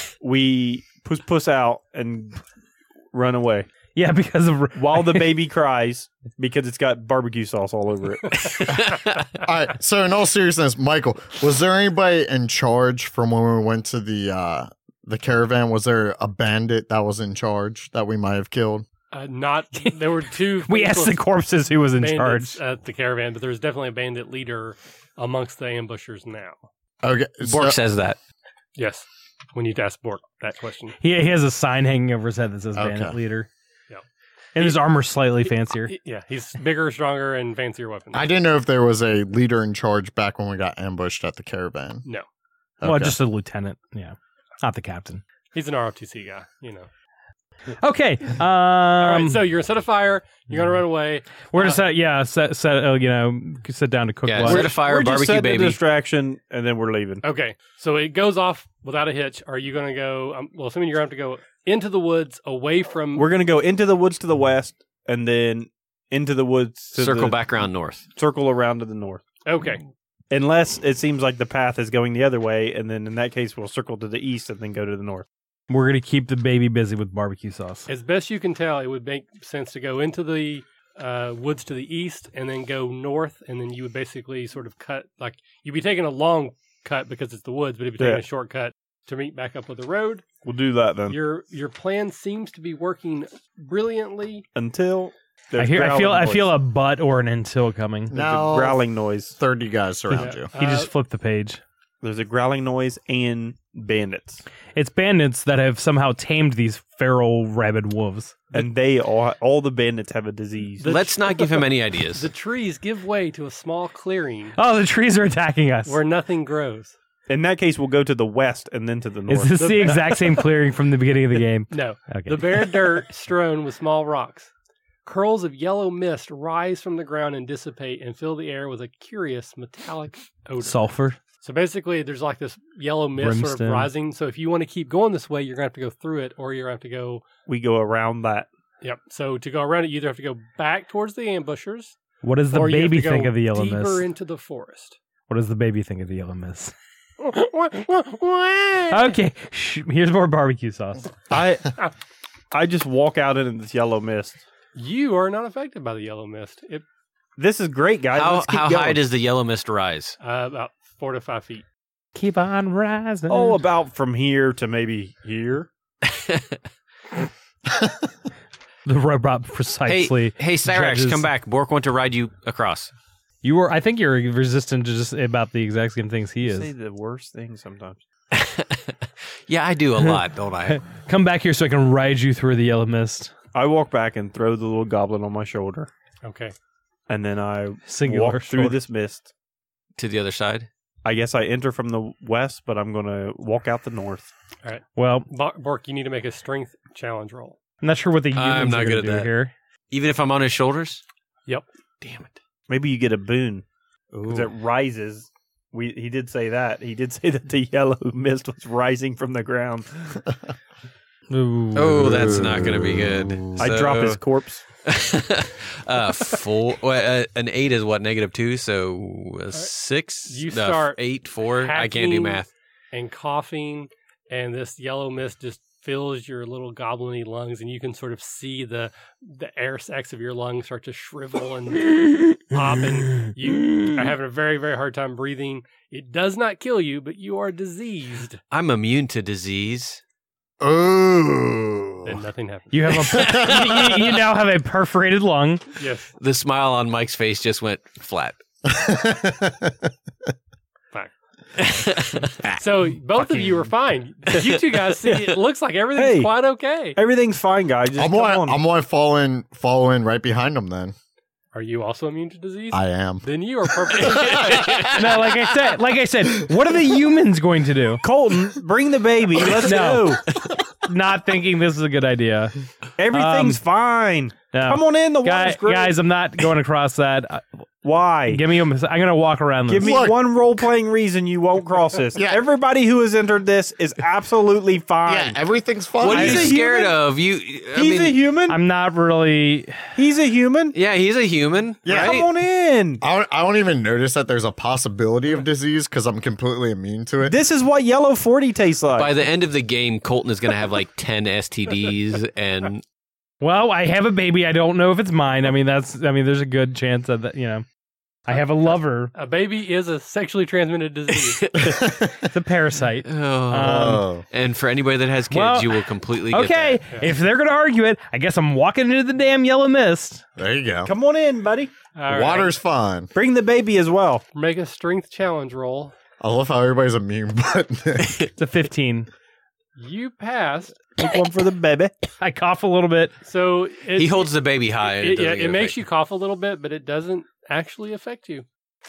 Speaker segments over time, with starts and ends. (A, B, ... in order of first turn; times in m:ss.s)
0:00.2-0:02.4 A
0:03.1-0:03.7 A
0:04.0-0:05.4 B
0:04.8-0:08.7 A
0:08.9-0:09.1 C
0:09.3-0:18.9 D
0:19.1-0:21.2 E
0:20.6-0:22.6 B
0:22.0-0:26.7 E
0:27.0-0:27.8 D
0:27.4-0:28.2 C
0:28.8-0:31.0 E
0:31.0-0:33.5 B
0:32.8-0:33.2 D
0:34.6-0:35.9 B
0:35.4-0:38.3 E
0:38.1-0:42.0 D
0:42.8-0:43.2 D
0:42.8-0:45.2 B
0:45.5-0:46.9 E
0:47.8-0:49.5 B
0:49.0-0:51.8 E
0:51.5-0:54.7 B
0:54.2-0:55.8 C
0:54.4-0:57.2 A
0:57.2-1:03.3 E
1:03.2-1:07.4 A
1:07.0-1:08.1 C
1:08.2-1:09.2 A
1:09.4-1:09.8 E
1:10.3-1:15.3 A
1:15.7-1:17.9 B
1:17.9-1:30.2 E
1:30.4-1:31.2 A
1:31.1-1:34.4 E
1:34.6-1:36.6 A
1:35.6-1:38.1 B
1:38.1-1:39.4 A
1:38.1-1:40.5 D
1:40.1-1:40.9 E
1:40.1-1:41.6 B
1:42.0-1:44.4 A
1:44.8-1:48.7 B
1:48.5-1:50.9 A
1:50.8-1:54.6 E
1:50.8-1:52.3 C
1:54.6-1:56.0 B
1:55.9-1:57.0 E
1:57.3-2:00.1 A
1:59.3-2:02.9 B
1:59.6-2:00.4 E
2:01.7-2:04.5 E
2:05.0-2:17.2 E
2:10.6-2:11.2 B
2:13.2-2:13.9 B
2:17.5-2:18.5 A
2:18.8-2:22.0 E
2:22.2-2:24.1 B
2:22.5-2:25.0 E
2:25.3-2:26.7 B
2:27.2-2:29.2 E
2:28.9-2:31.4 B
2:31.3-2:31.8 A
2:32.5-2:34.4 A
2:34.8-2:36.8 E
2:37.4-2:39.0 A
2:38.1-2:40.2 C
2:40.2-2:41.6 E
2:42.2-2:43.6 B
2:43.3-2:45.7 A
2:46.0-2:46.6 C
2:47.7-2:48.1 D
2:48.8-2:51.3 B
2:49.9-2:52.9 C
2:53.4-2:56.7 B
2:56.4-2:58.0 A
2:58.3-3:00.8 C
3:00.7-3:03.3 B
3:03.5-3:05.9 A
3:06.2-3:06.5 E
3:07.1-3:09.3 A
3:07.9-3:08.8 B
3:10.0-3:10.7 C
3:11.0-3:14.3 A
3:14.6-3:17.6 E
3:15.0-3:15.3 B
3:17.8-3:19.5 B
3:18.3-3:19.3 C
3:19.9-3:21.0 C
3:22.0-3:22.3 C
3:22.7-3:23.6 A
3:24.1-3:24.5 D
3:24.2-3:30.2 A
3:31.3-3:32.4 B
3:31.8-3:34.2 C
3:32.0-3:33.7 D
3:33.6-3:34.6 A
3:34.8-3:42.5 C
3:40.3-3:41.0 E
3:41.6-3:58.4 E
3:58.5-4:00.0 C
4:00.6-4:02.2 D
4:02.0-4:03.0 E
4:02.7-4:05.8 B
4:03.1-4:03.9 D
4:05.8-4:06.1 E
4:06.2-4:08.4 C
4:08.6-4:09.9 D
4:11.6-4:12.3 C
4:12.6-4:17.0 E
4:13.2-4:13.6 B
4:14.3-4:15.4 A
4:16.0-4:16.3 A
4:17.0-4:18.6 A
4:17.9-4:21.0 D
4:21.5-4:24.8 E
4:22.7-4:23.3 D
4:23.9-4:25.2 D
4:24.8-4:28.0 B
4:28.0-4:30.3 A
4:29.6-4:30.2 B
4:30.8-4:32.6 B
4:33.0-4:36.0 A
4:33.1-4:33.6 B
4:34.5-4:37.4 B
4:37.8-4:38.4 A
4:38.3-4:40.0 B
4:39.7-4:45.4 A
4:39.8-4:40.7 D
4:42.2-4:42.5 D
4:45.0-4:46.6 D
4:46.0-4:47.0 A
4:46.0-4:48.2 C
4:47.8-4:48.6 A
4:48.5-4:49.9 B
4:50.0-4:50.8 A
4:50.7-4:52.3 C
4:51.8-4:52.2 D
4:51.9-4:53.0 A
4:53.0-4:57.4 D
4:57.2-4:59.1 A
4:59.0-5:02.8 C
5:03.4-5:07.6 B
5:08.3-5:09.1 B
5:09.1-5:11.4 E
5:11.3-5:11.9 C
5:11.6-5:12.3 D
5:12.3-5:14.1 B
5:13.0-5:16.8 C
5:13.6-5:14.2 D
5:15.3-5:20.2 B
5:20.4-5:20.9 D
5:20.9-5:21.7 A
5:22.0-5:22.5 E
5:22.1-5:23.1 D
5:23.1-5:24.2 A
5:24.3-5:25.9 E
5:26.2-5:28.2 D
5:28.4-5:29.1 B
5:29.8-5:30.8 E
5:31.0-5:32.0 A
5:32.2-5:33.1 B
5:33.2-5:34.3 E
5:34.0-5:35.8 C
5:34.8-5:38.4 E